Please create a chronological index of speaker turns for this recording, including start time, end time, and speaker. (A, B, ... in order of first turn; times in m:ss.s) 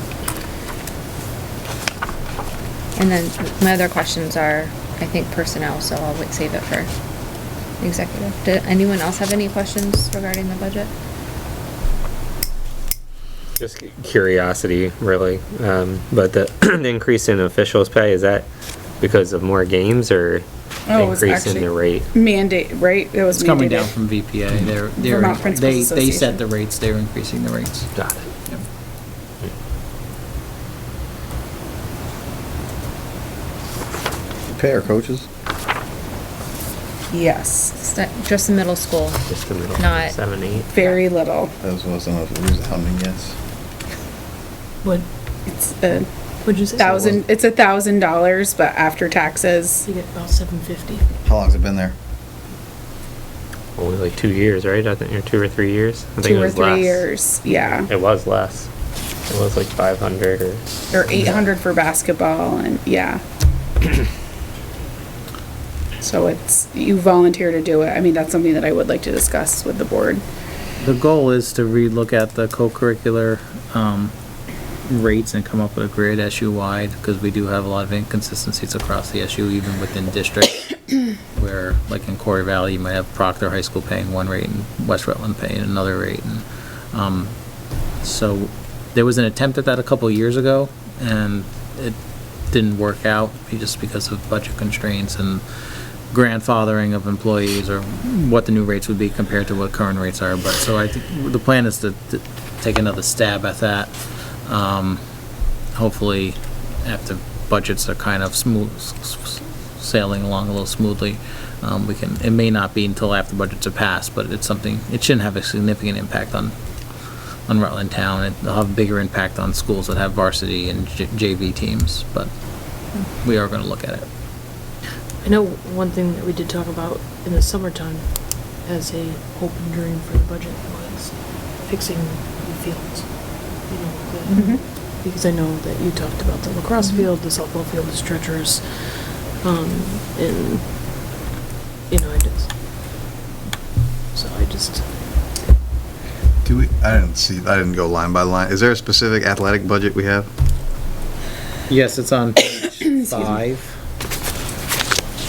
0:03.0-0:06.9 A
0:07.8-0:10.9 A
0:13.6-0:18.5 B
0:19.0-0:22.1 B
0:20.9-0:23.9 C
0:23.3-0:28.6 D
0:25.0-0:26.4 C
0:28.0-0:28.3 B
0:34.5-0:35.3 E
0:37.1-0:37.7 C
0:37.8-0:41.0 A
0:39.3-0:40.7 B
0:40.7-0:41.5 C
0:41.6-0:43.4 E
0:45.5-0:46.1 C
0:46.4-0:47.0 F
0:46.8-0:49.9 C
0:49.8-0:51.0 F
0:51.2-0:52.0 E
0:53.8-0:57.1 B
0:56.2-0:57.9 C
0:57.9-0:58.7 B
0:59.3-1:00.6 B
1:00.9-1:03.2 C
1:06.0-1:10.2 C
1:10.8-1:14.1 D
1:14.8-1:27.4 D
1:28.0-1:32.0 D
1:32.5-1:35.4 D
1:36.1-1:45.0 D
1:45.8-1:56.6 D
1:57.5-2:02.3 D
2:02.9-2:04.1 D
2:05.2-2:20.8 F
2:14.3-2:14.6 A
2:14.4-2:14.6 C
2:16.8-2:17.1 A
2:21.9-2:22.5 F
2:24.1-2:24.9 F
2:26.4-2:30.3 E
2:31.7-2:33.8 D